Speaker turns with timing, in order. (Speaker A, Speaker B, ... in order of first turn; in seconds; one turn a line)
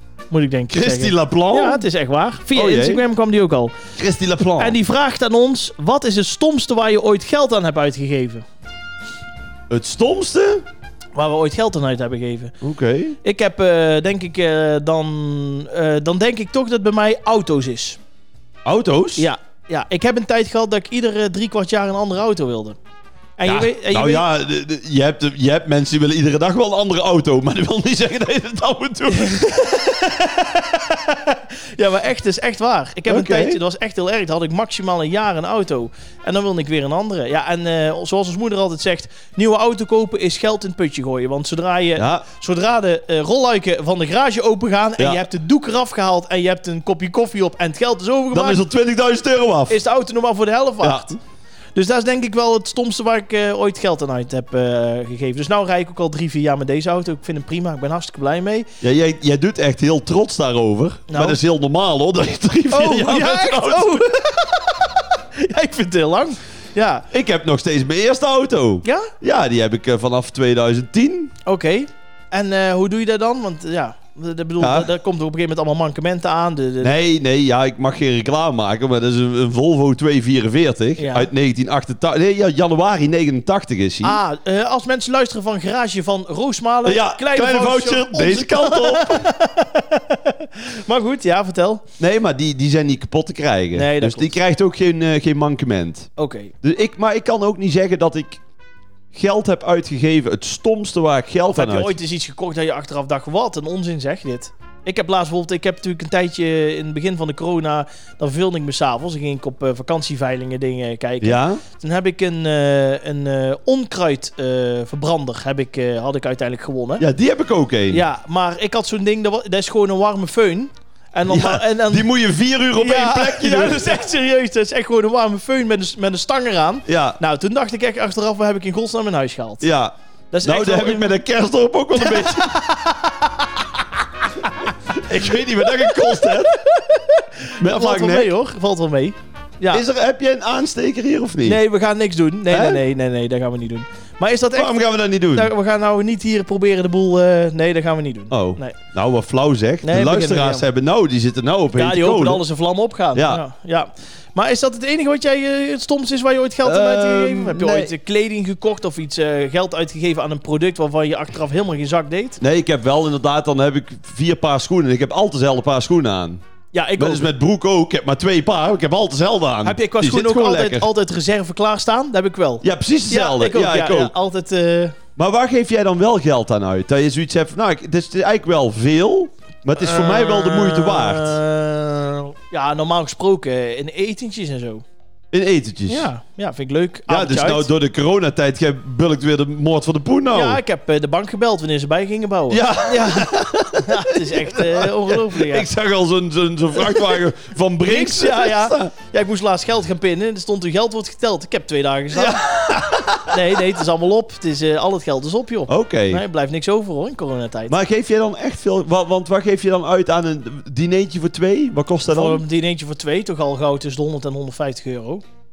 Speaker A: 0.3-3.8
Speaker B: 0.7-1.8
Speaker B: 2.5-3.0
Speaker B: 4.0-4.8
Speaker A: 4.6-8.4
Speaker B: 9.7-10.6
Speaker A: 11.1-12.6
Speaker B: 12.6-13.2
Speaker A: 13.2-18.0
Speaker B: 18.6-19.3
Speaker A: 19.2-22.8
Speaker A: 23.4-24.2
Speaker B: 23.4-29.4
Speaker A: 29.1-48.6
Speaker B: 33.1-33.6
Speaker B: 42.0-42.2
Speaker B: 45.0-45.2
Speaker B: 48.3-49.8
Speaker A: 49.7-51.2
Speaker B: 50.8-51.1
Speaker A: 51.8-58.7
Speaker B: 58.8-64.0
Speaker A: 61.1-61.4
Speaker A: 62.7-67.0
Speaker B: 67.1-71.3
Speaker A: 68.8-69.1
Speaker A: 71.4-76.9
Speaker B: 74.6-74.9
Speaker B: 76.8-84.2
Speaker A: 81.0-81.3
Speaker A: 84.0-91.8
Speaker B: 86.8-89.3
Speaker B: 92.0-96.1
Speaker A: 93.7-94.3
Speaker A: 96.2-96.5
Speaker B: 96.6-98.4
Speaker B: 99.1-101.9
Speaker A: 101.5-117.0
Speaker B: 111.2-111.6
Speaker B: 117.0-118.0
Speaker A: 117.9-122.1
Speaker B: 121.3-124.0
Speaker A: 122.7-129.7
Speaker B: 126.8-127.2
Speaker B: 129.6-132.5
Speaker A: 130.3-131.1
Speaker A: 131.9-133.7
Speaker A: 134.4-134.9
Speaker B: 134.6-136.6
Speaker A: 135.5-139.8
Speaker B: 137.6-138.3
Speaker B: 139.7-141.6
Speaker A: 141.4-148.8
Speaker B: 142.5-142.8
Speaker B: 144.5-145.5
Speaker B: 148.3-152.4
Speaker A: 149.8-150.7
Speaker A: 151.7-162.4
Speaker B: 153.1-153.4
Speaker B: 156.6-157.9
Speaker B: 162.4-166.4
Speaker A: 166.7-167.3
Speaker B: 167.0-170.9
Speaker A: 169.6-175.0
Speaker B: 172.6-174.1
Speaker B: 175.2-181.4
Speaker A: 179.8-184.8
Speaker B: 185.3-186.1
Speaker A: 185.9-187.7
Speaker B: 187.1-190.6
Speaker A: 190.3-195.7
Speaker B: 192.5-198.9
Speaker A: 196.8-197.2
Speaker A: 197.8-202.4
Speaker B: 202.1-203.6
Speaker A: 203.3-207.7
Speaker B: 205.7-206.2
Speaker B: 207.7-212.4
Speaker A: 212.1-215.2